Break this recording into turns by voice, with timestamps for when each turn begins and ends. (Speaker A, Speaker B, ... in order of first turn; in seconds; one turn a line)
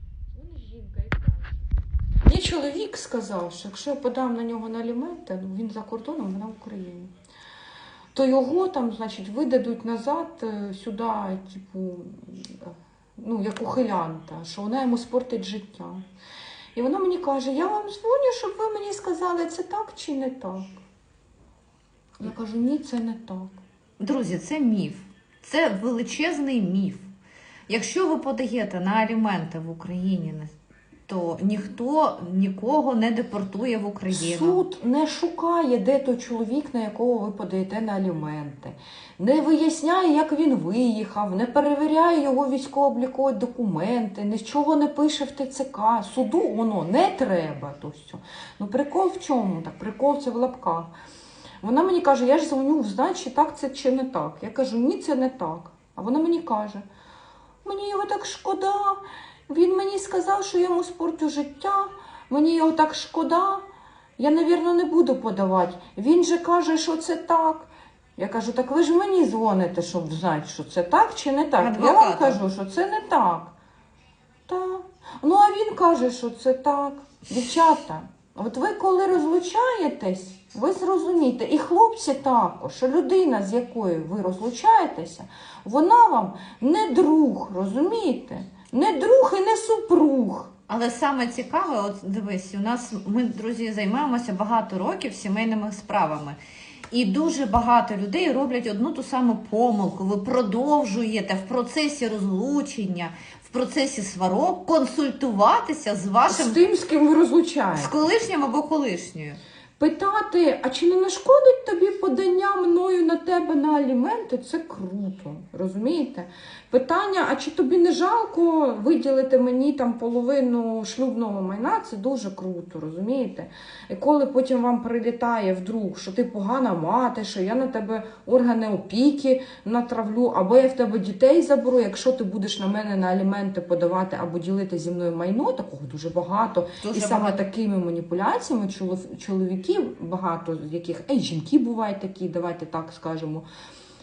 Speaker A: 0.3-1.6
Speaker A: 2.3-7.1
Speaker A: 8.1-16.0
Speaker A: 16.8-20.8
Speaker A: 22.2-23.6
Speaker B: 24.0-27.1
Speaker B: 27.7-30.5
Speaker B: 31.1-34.6
Speaker A: 34.1-50.9
Speaker A: 51.6-56.9
Speaker A: 57.6-63.6
Speaker A: 64.2-73.5
Speaker B: 71.6-72.4
Speaker A: 74.5-90.5
Speaker B: 90.7-96.4
Speaker B: 96.9-106.6
Speaker A: 106.3-108.0
Speaker B: 107.8-109.4
Speaker A: 109.8-143.5
Speaker B: 136.8-137.4